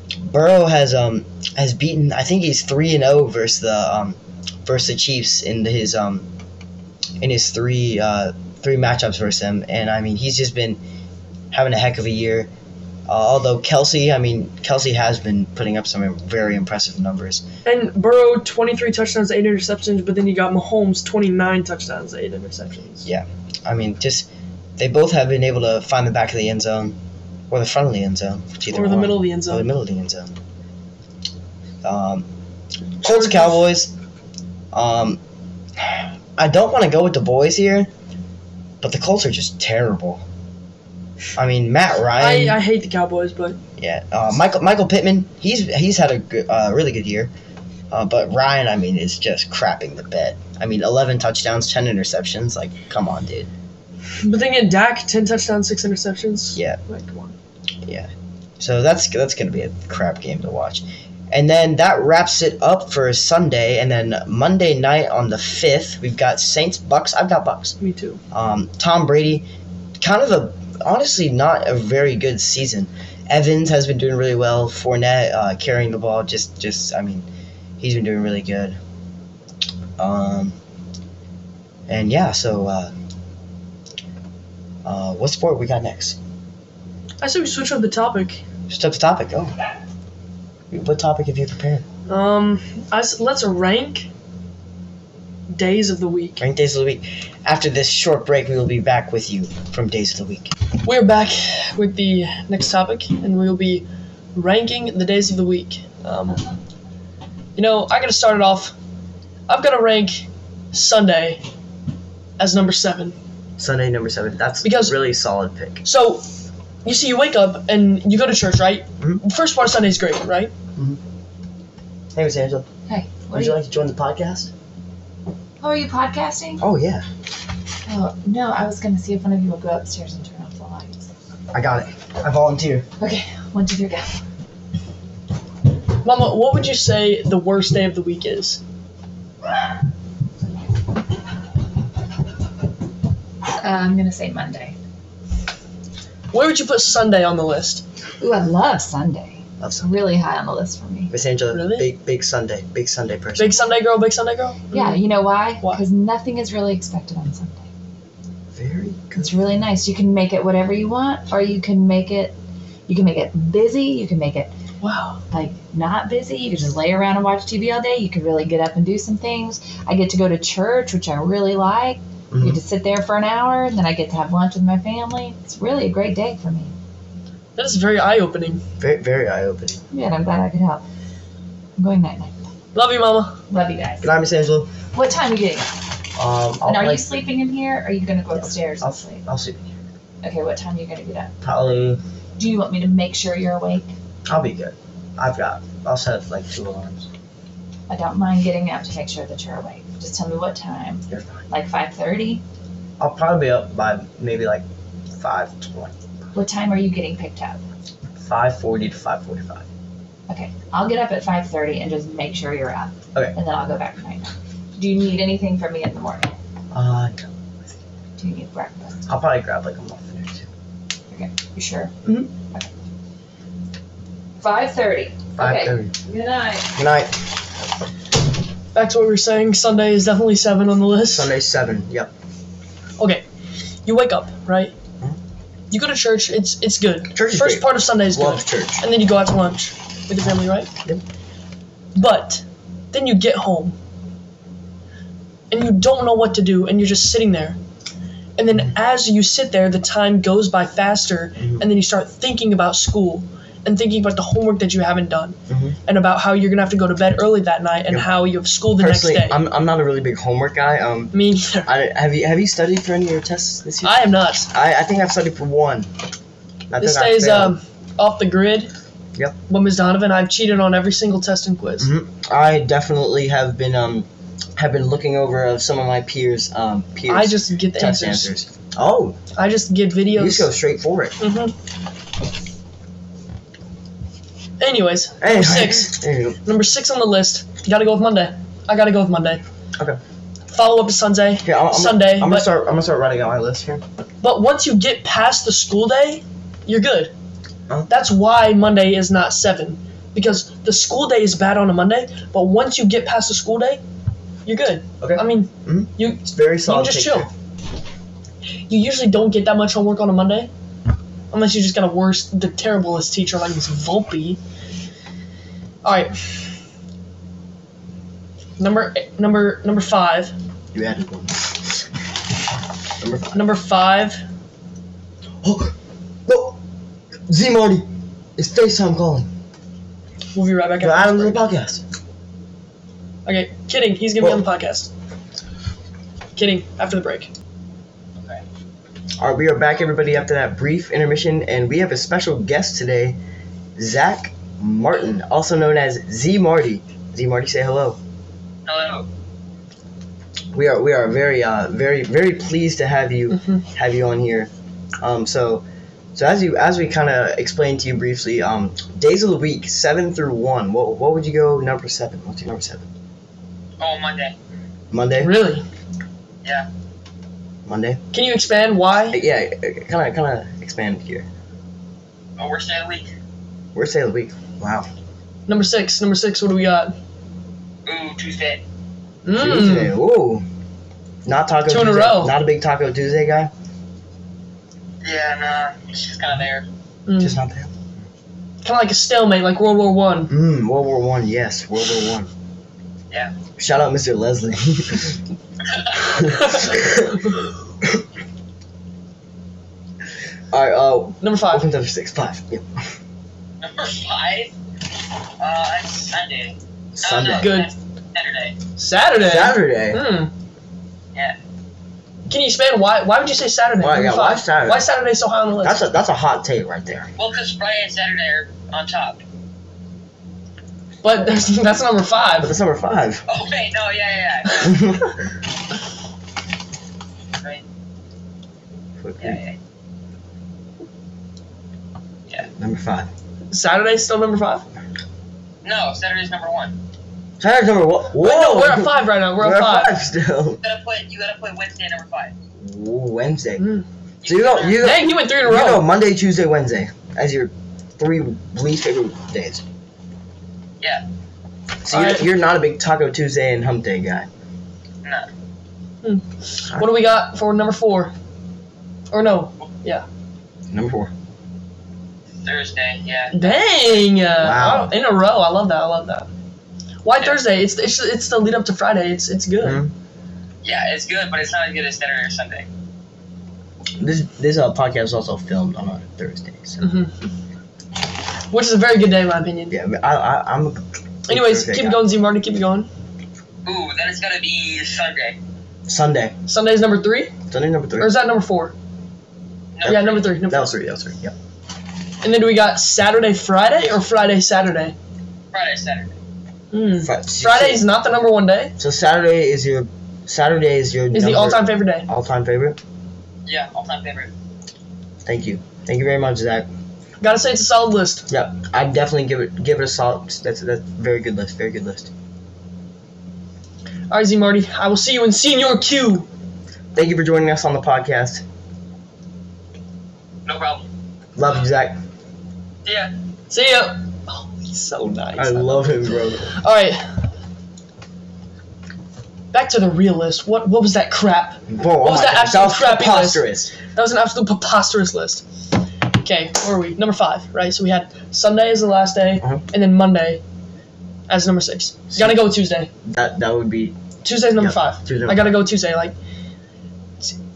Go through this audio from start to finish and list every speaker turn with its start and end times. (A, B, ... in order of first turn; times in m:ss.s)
0:00.2-0:06.3 A
0:07.2-0:10.8 A
0:11.5-0:12.5 A
0:13.1-0:17.4 A
0:17.6-0:23.1 B
0:23.0-0:24.3 A
0:24.8-0:27.0 A
0:27.5-0:30.3 A
0:28.7-0:29.7 B
0:31.8-0:32.2 A
0:33.0-0:33.9 A
0:33.0-0:33.7 B
0:34.7-0:35.2 A
0:36.4-0:37.9 A
0:38.8-0:40.2 A
0:41.4-0:42.6 A
0:42.2-0:43.6 B
0:43.8-0:47.3 A
0:47.9-0:53.5 A
0:54.2-0:57.4 B
0:58.6-1:07.8 A
1:07.8-1:08.2 B
1:08.3-1:09.4 A
1:10.0-1:17.3 A
1:17.8-1:18.8 A
1:20.0-1:20.6 A
1:21.9-1:22.9 A
1:24.8-1:26.2 A
1:27.2-1:28.4 B
1:28.7-1:29.5 A
1:30.7-1:31.8 A
1:32.1-1:34.1 B
1:35.5-1:36.4 B
1:36.4-1:40.5 A
1:40.8-1:46.4 B
1:47.6-1:48.7 B
1:49.5-1:51.4 B
1:52.4-1:53.2 B
1:53.6-1:55.8 A
1:54.6-1:55.0 B
1:55.8-1:56.2 B
1:56.8-2:00.5 B
2:02.2-2:02.7 A
2:02.9-2:03.6 C
2:03.3-2:04.5 A
2:05.6-2:06.6 C
2:06.6-2:07.0 A
2:07.8-2:11.1 C
2:11.5-2:12.8 A
2:13.0-2:14.2 C
2:16.0-2:18.6 B
2:23.6-2:24.8 C
2:26.3-2:27.8 B
2:28.2-2:31.1 C
2:29.6-2:29.9 A
2:31.1-2:33.6 A
2:31.5-2:31.9 B
2:33.4-2:35.0 B
2:34.7-2:37.7 C
2:38.6-2:39.4 A
2:39.2-2:42.4 C
2:42.9-2:44.5 C
2:44.8-2:45.2 B
2:45.3-2:56.7 C
2:52.3-2:52.6 A
2:57.6-2:58.6 B
2:58.8-2:59.8 A
2:59.9-3:00.8 C
3:01.8-3:02.4 C
3:02.7-3:03.4 B
3:03.5-3:04.1 C
3:04.0-3:04.7 A
3:04.9-3:05.8 C
3:06.2-3:07.1 A
3:06.6-3:09.2 C
3:08.8-3:09.7 A
3:10.2-3:11.3 C
3:11.4-3:12.0 A
3:12.4-3:13.9 C
3:14.3-3:17.1 A
3:17.9-3:22.4 C
3:21.1-3:21.4 A
3:23.0-3:24.6 A
3:25.2-3:25.9 A
3:26.3-3:27.6 C
3:28.2-3:29.6 A
3:30.3-3:36.3 C
3:36.7-3:37.3 A
3:38.2-3:39.0 C
3:39.1-3:40.5 A
3:41.1-3:42.0 C
3:44.4-3:46.8 C
3:45.4-3:45.9 A
3:46.8-3:47.2 A
3:48.7-3:51.3 B
3:51.1-3:52.1 A
3:53.0-3:53.2 B
3:53.8-3:54.7 B
3:55.7-4:00.7 B
3:57.2-3:58.8 A
4:01.9-4:03.8 B
4:05.5-4:07.6 B
4:08.4-4:19.4 B
4:11.4-4:11.6 A
4:15.5-4:15.8 A
4:18.8-4:21.1 A
4:21.1-4:21.7 B
4:21.7-4:25.9 A
4:23.8-4:24.5 B
4:26.7-4:27.6 A
4:26.8-4:28.7 B
4:29.5-4:31.9 B
4:31.8-4:34.1 A
4:34.6-4:39.2 A
4:37.1-4:38.3 B
4:39.3-4:40.5 B
4:40.2-4:41.2 A
4:41.2-4:41.5 B
4:44.6-4:49.4 B
4:45.2-4:46.4 A
4:50.5-4:52.5 B
4:51.4-4:53.8 A
4:54.2-4:57.1 B
4:57.9-5:03.8 B
5:04.4-5:07.3 B
5:05.0-5:07.3 A
5:08.7-5:10.5 B
5:11.3-5:14.4 B
5:15.8-5:16.4 B
5:18.6-5:20.3 B
5:20.7-5:21.8 A
5:23.0-5:23.4 A
5:23.3-5:24.2 B
5:25.4-5:25.7 A
5:26.3-5:26.6 A
5:27.3-5:29.3 A
5:30.3-5:31.4 B
5:30.8-5:31.8 A
5:33.3-5:34.9 B
5:36.4-5:37.3 B
5:39.2-5:43.2 A
5:43.8-5:48.0 A
5:48.7-5:49.1 D
5:50.5-6:02.9 A
6:03.8-6:04.4 D
6:04.9-6:05.3 A
6:05.2-6:05.6 B
6:07.7-6:08.0 A
6:08.1-6:09.2 B
6:09.1-6:11.3 A
6:12.4-6:13.1 D
6:13.8-6:14.9 A
6:15.5-6:16.9 B
6:17.8-6:18.6 D
6:19.2-6:19.9 B
6:19.3-6:20.4 A
6:21.2-6:23.5 A
6:21.7-6:22.3 B
6:25.0-6:26.7 D
6:27.1-6:27.4 B
6:27.2-6:27.7 A
6:28.6-6:30.3 B
6:30.3-6:32.3 A
6:33.6-6:35.2 A
6:35.7-6:36.2 D
6:36.1-6:37.3 A
6:40.5-6:42.8 A
6:41.2-6:41.7 B
6:43.6-6:44.5 D
6:45.4-6:48.6 D
6:47.0-6:47.6 A
6:47.3-6:47.7 B
6:48.8-6:50.3 B
6:49.2-6:50.0 A
6:52.3-6:55.8 B
6:53.8-6:54.8 A
6:55.6-6:57.1 A
6:57.2-6:59.2 D
7:01.0-7:02.5 B
7:02.4-7:03.2 A
7:03.3-7:05.0 D
7:04.7-7:05.0 A
7:09.0-7:09.4 A
7:09.2-7:09.6 D
7:12.4-7:13.1 A
7:13.5-7:14.7 B
7:15.6-7:16.8 D
7:17.4-7:20.6 A
7:18.2-7:19.9 B
7:20.6-7:22.3 D
7:22.6-7:23.7 A
7:23.6-7:23.8 B
7:24.2-7:24.8 D
7:24.3-7:29.6 A
7:24.8-7:25.8 B
7:31.8-7:34.3 A
7:31.9-7:32.2 B
7:36.0-7:38.1 B
7:39.1-7:40.0 B
7:40.7-7:41.1 A
7:42.4-7:43.9 D
7:43.3-7:46.3 B
7:44.4-7:44.9 A
7:47.0-7:49.8 B
7:49.6-7:49.9 A
7:50.6-7:52.7 D
7:54.0-7:56.9 A
7:56.8-7:57.2 B
7:58.5-7:59.8 B
7:59.7-8:02.0 A
8:01.3-8:02.9 B
8:03.6-8:05.4 D
8:05.9-8:06.3 A
8:06.5-8:07.4 B
8:07.5-8:08.1 A
8:08.0-8:08.7 B
8:09.8-8:10.3 D
8:09.8-8:10.8 B
8:09.8-8:11.3 A
8:12.2-8:14.9 B
8:15.5-8:16.1 D
8:16.7-8:18.7 B
8:17.0-8:17.8 A
8:18.8-8:22.8 A
8:21.1-8:22.1 B
8:23.4-8:24.3 D
8:25.2-8:26.7 A
8:27.2-8:28.3 B
8:28.3-8:32.1 A
8:34.1-8:36.3 B
8:36.9-8:38.4 A
8:40.4-8:40.9 D
8:41.4-8:42.0 A
8:42.8-8:43.1 D
8:43.5-8:47.1 B
8:45.4-8:46.5 A
8:49.5-8:55.4 B
8:51.7-8:53.7 A
8:56.2-9:00.4 B
9:01.3-9:02.9 B
9:02.1-9:02.4 A
9:03.0-9:04.0 A
9:04.2-9:06.1 B
9:04.6-9:05.6 A